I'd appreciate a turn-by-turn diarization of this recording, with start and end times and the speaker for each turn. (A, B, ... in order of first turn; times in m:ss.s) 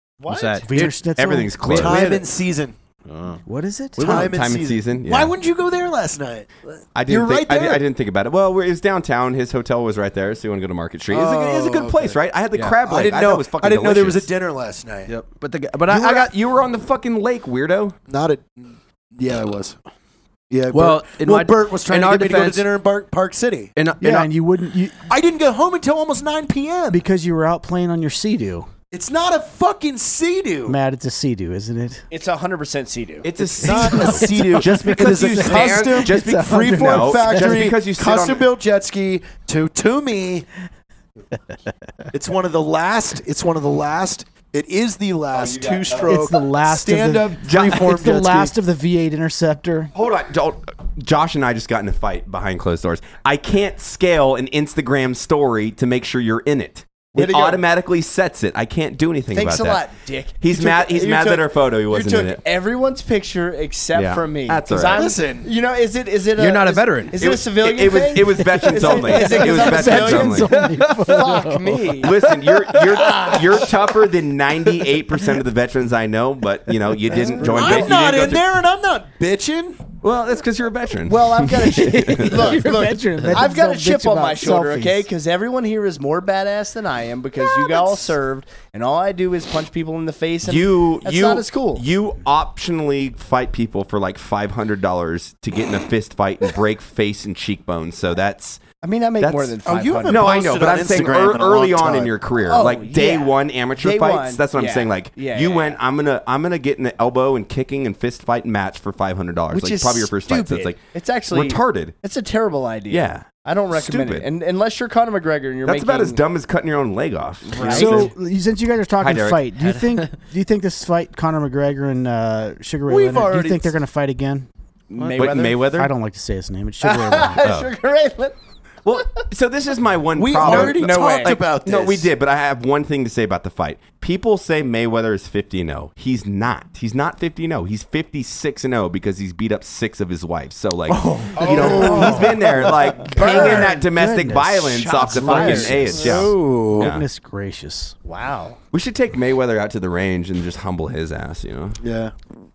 0:00.2-0:00.9 A
0:00.3-0:01.0 B
0:00.7-0:01.6 C
0:01.1-0:02.3 D
0:01.6-0:02.0 B
0:01.7-0:02.8 E
0:03.1-0:03.4 B
0:03.5-0:04.2 C
0:04.0-0:05.3 D
0:04.0-0:07.8 E
0:06.9-0:14.3 D
0:11.1-0:12.2 E
0:12.5-0:12.8 B
0:12.8-0:15.1 E
0:15.1-0:16.3 B
0:15.9-0:18.0 D
0:18.1-0:19.8 E
0:20.5-0:23.7 E
0:20.7-0:22.7 B
0:23.8-0:24.3 B
0:24.0-0:25.1 C
0:25.1-0:27.0 E
0:26.9-0:28.7 C
0:28.9-0:30.8 E
0:30.7-0:32.0 C
0:32.1-0:33.5 A
0:33.2-0:38.5 D
0:33.6-0:40.5 E
0:33.7-0:37.7 C
0:35.4-0:35.9 A
0:42.1-0:48.5 E
0:45.3-0:46.3 D
0:46.0-0:49.9 C
0:47.5-0:47.8 D
0:50.0-0:59.9 D
0:57.2-0:57.6 A
0:59.3-1:12.2 A
1:00.4-1:02.4 D
1:03.9-1:05.0 D
1:04.9-1:05.5 E
1:06.4-1:07.2 B
1:07.2-1:10.7 D
1:08.5-1:13.3 C
1:10.5-1:11.1 B
1:12.0-1:18.5 D
1:12.8-1:13.8 A
1:17.1-1:18.2 A
1:17.4-1:19.9 E
1:20.0-1:22.6 D
1:21.1-1:31.8 A
1:21.7-1:25.1 C
1:30.4-1:38.6 D
1:38.8-1:40.6 A
1:39.2-1:52.0 D
1:39.6-1:42.2 E
1:42.4-1:45.8 A
1:49.5-1:56.3 A
1:52.9-1:54.3 D
1:55.6-1:58.1 D
1:57.5-1:58.1 A
1:57.6-2:04.5 C
1:59.0-1:59.5 D
1:59.7-2:00.0 B
2:02.9-2:03.8 E
2:04.9-2:05.9 D
2:05.0-2:05.5 B
2:05.1-2:05.7 A
2:05.7-2:07.4 C
2:06.8-2:08.4 A
2:07.4-2:07.7 D
2:08.8-2:27.0 D
2:09.0-2:09.3 A
2:10.2-2:12.1 E
2:10.3-2:11.4 A
2:20.9-2:22.4 C
2:21.3-2:23.9 A
2:21.6-2:22.3 E
2:23.2-2:23.6 E
2:23.2-2:28.0 C
2:24.6-2:26.8 A
2:26.4-2:26.9 E
2:28.0-2:28.6 A
2:28.7-2:31.8 D
2:31.8-2:32.2 E